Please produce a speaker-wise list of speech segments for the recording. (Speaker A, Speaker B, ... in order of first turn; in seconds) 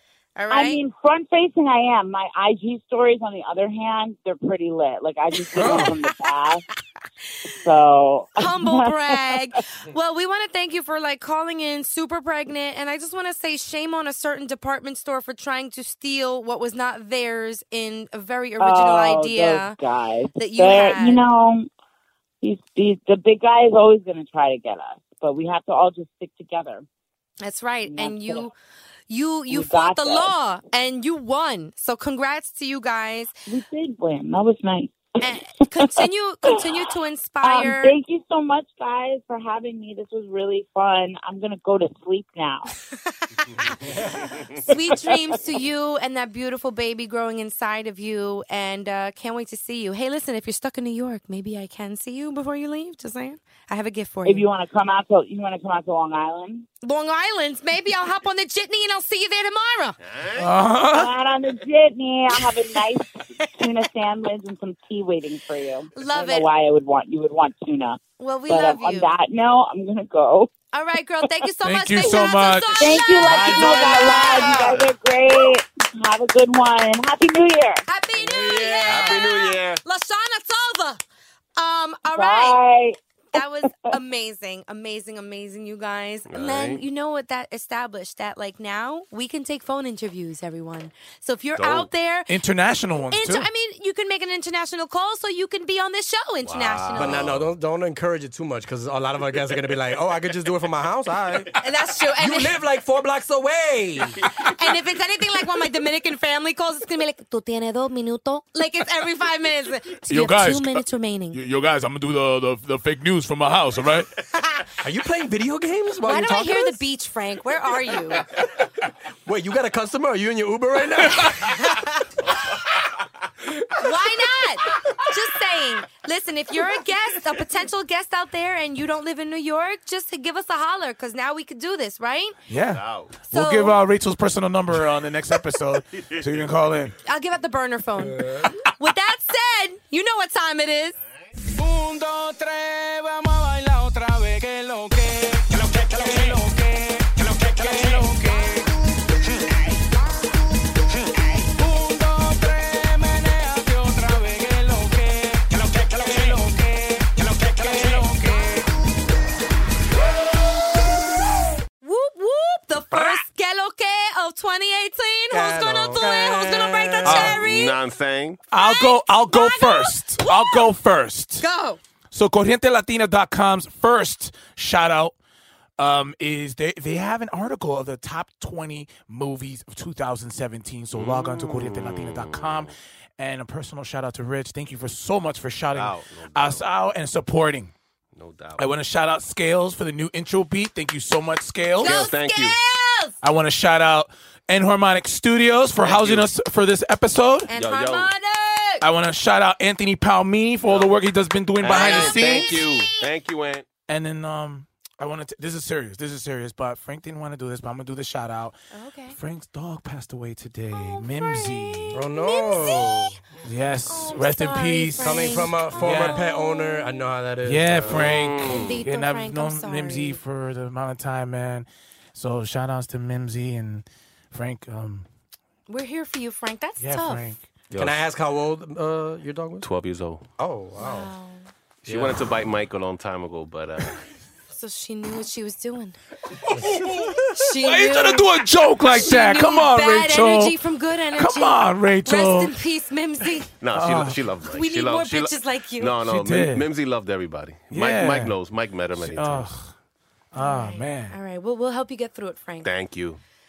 Speaker A: 0.4-0.8, 5.5-6.2, 8.4-19.8, 20.4-21.2, 27.4-28.6, 29.1-33.3, 35.2-38.0, 43.4-43.8, 44.6-54.5, 56.8-60.0, 63.4-63.7, 66.0-66.5, 68.2-69.1, 70.7-74.8, 77.9-81.0, 81.6-82.6, 83.3-92.3, 93.1-97.3, 101.6-102.6, 104.4-111.4, 116.0-118.2, 123.8-132.3, 133.3-133.8, 137.1-141.0, 161.8-167.8, 168.5-170.7, 171.4-171.8, 191.8-193.1, 197.5-198.8, 202.8-203.0, 208.7-209.2, 210.7-213.2, 213.9-217.0, 218.4-220.2, 225.7-227.2, 230.8-231.5, 234.5-236.0, 237.3-243.5, 244.5-245.9, 250.4-252.7
Speaker B: 0.5-6.6, 7.6-9.2, 18.6-21.7, 22.4-26.9, 27.9-28.5, 29.5-30.3, 33.5-36.6, 37.4-42.7, 54.2-56.7, 60.9-70.6, 72.8-77.8, 82.1-83.0
Speaker C: 60.0-60.5, 74.5-74.9, 78.2-79.8, 86.3-86.8, 91.6-91.9, 96.4-97.5, 132.7-133.2, 167.2-168.4, 180.9-182.7, 185.7-186.7, 188.2-188.7, 191.8-192.6, 195.8-196.3, 197.5-198.1, 200.7-200.9, 201.6-203.7, 217.9-218.8, 227.7-228.0, 229.6-230.2, 231.8-234.0, 243.6-249.5, 252.6-253.2
Speaker D: 60.4-61.1, 71.6-74.6, 92.3-93.5, 110.1-114.1, 132.5-136.9, 167.0-167.4, 168.5-171.5, 172.1-175.2, 175.8-187.7, 188.6-192.0, 193.2-197.5, 198.8-202.7, 203.9-208.6, 209.1-212.0, 213.4-216.2, 217.4-225.1, 226.8-227.4, 236.5-240.6, 241.2-242.5, 243.7-244.2, 246.1-246.7, 247.7-248.3, 249.0-249.7, 250.3-251.2
Speaker E: 97.0-104.2, 114.8-116.8, 119.3-121.6, 165.3-167.4, 201.6-202.2, 211.9-213.2, 215.0-218.4, 227.7-229.7, 230.4-231.1, 231.9-232.3
Speaker F: 141.6-149.8, 150.9-158.8